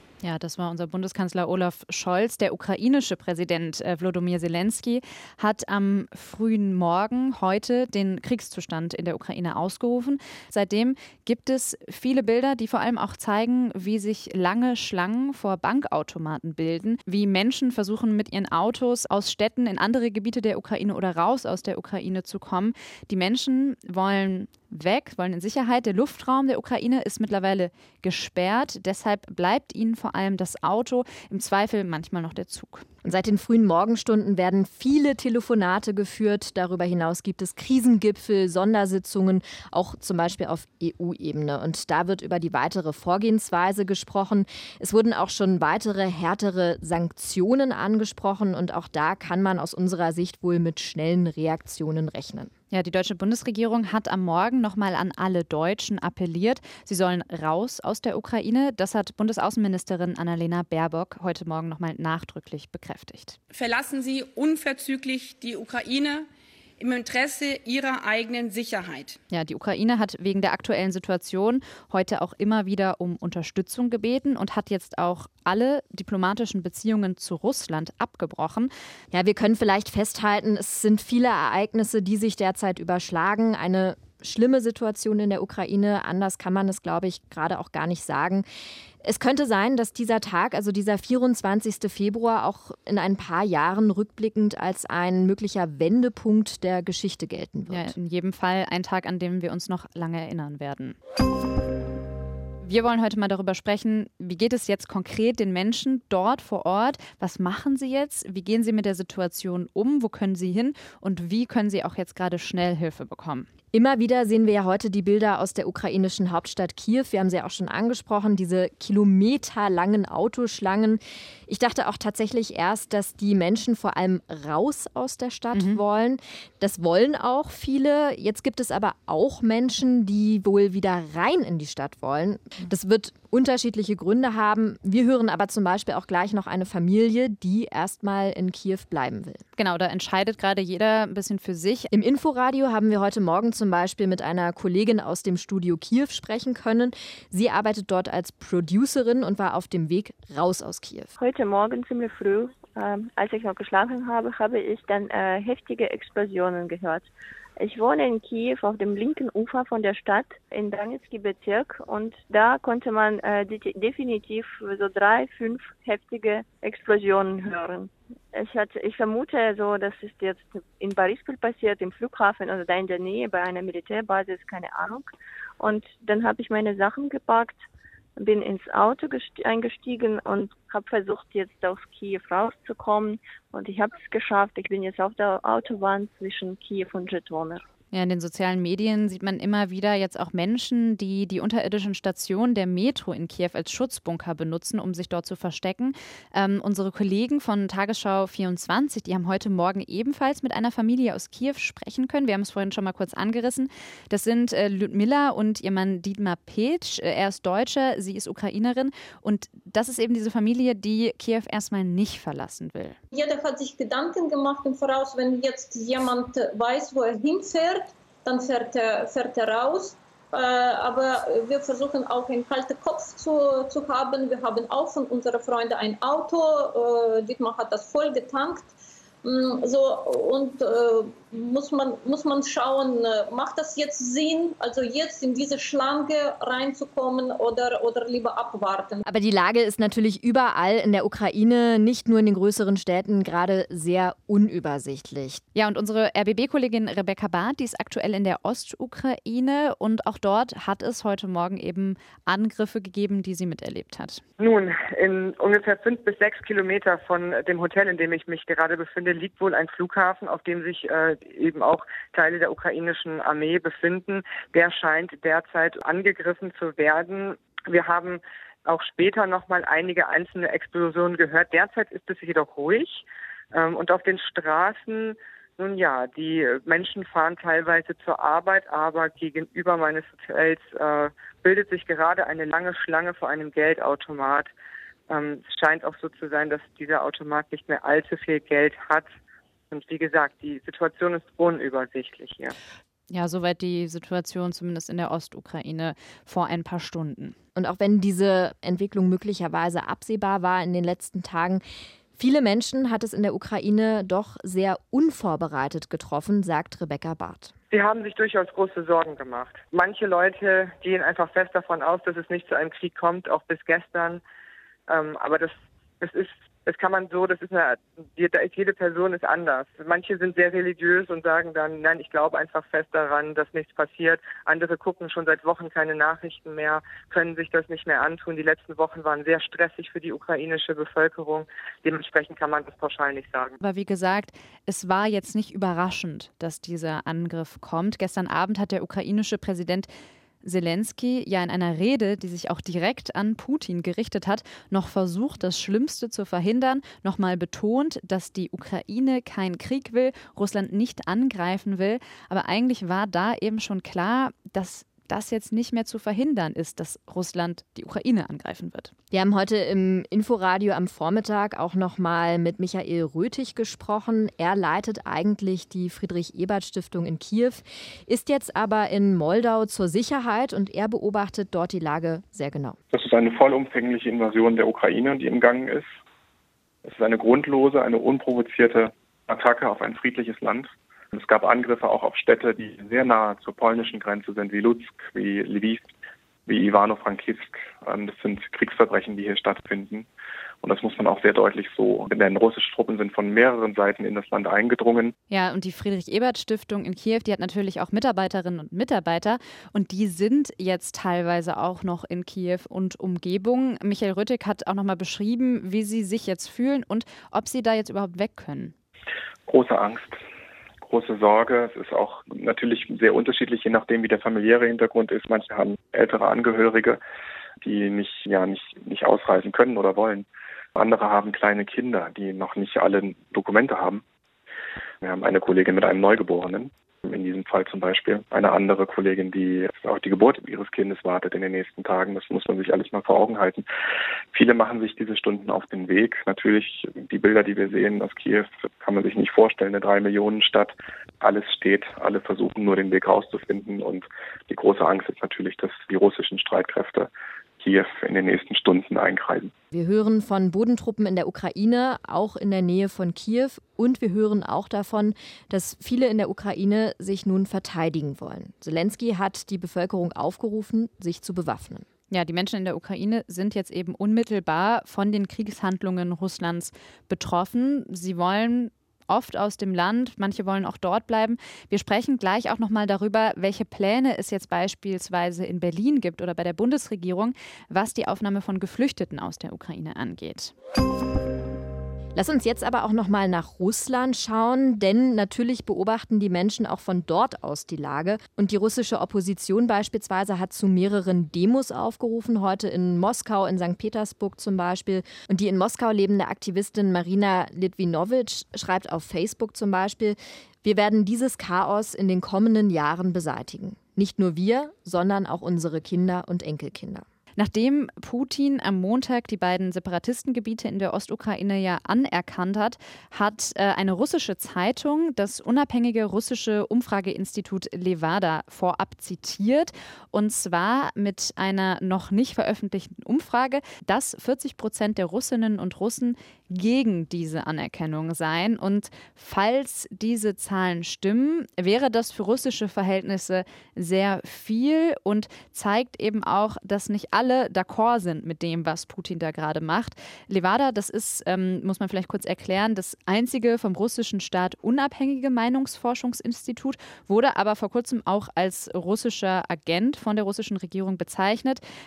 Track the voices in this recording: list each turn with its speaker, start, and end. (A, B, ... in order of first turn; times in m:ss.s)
0:00.2-0:32.8 A
0:33.0-0:52.5 B
0:52.7-1:03.4 A
1:03.5-1:06.3 C
1:06.8-1:09.2 C
1:09.3-1:18.7 A
1:19.1-1:28.4 B
1:29.0-1:37.9 B
1:37.7-1:41.0 A
1:42.6-1:53.5 A
1:53.7-2:19.4 B
2:05.5-2:05.8 A
2:19.6-2:21.9 A
2:21.9-2:31.1 B
2:31.2-2:37.1 D
2:37.6-2:55.1 D
2:55.6-2:57.6 D
2:58.2-3:07.6 D
3:07.9-3:33.0 A
3:33.1-3:48.7 E
3:49.2-3:59.0 E
3:59.0-4:05.4 B
4:05.5-4:14.2 A
4:14.4-4:44.5 F
4:45.1-4:49.1 F
4:49.7-4:52.5 F
4:53.1-4:57.4 A
4:57.5-5:01.6 B
5:02.2-5:07.5 B
5:07.7-5:14.2 F
5:14.9-5:33.6 F
5:33.6-5:39.9 A
5:40.4-5:58.9 A
5:59.1-6:12.8 B
6:12.9-6:15.9 G
6:16.8-6:25.9 G
6:26.4-6:30.1 G
6:30.6-6:35.1 G
6:35.3-6:48.7 A
6:49.5-6:50.2 G
6:50.8-6:57.0 G
6:57.6-7:04.0 G
7:05.0-7:13.6 G
7:14.3-7:29.5 G
7:29.7-7:41.8 B
7:42.1-8:00.5 A
8:02.1-8:27.0 B
8:27.4-9:11.6 A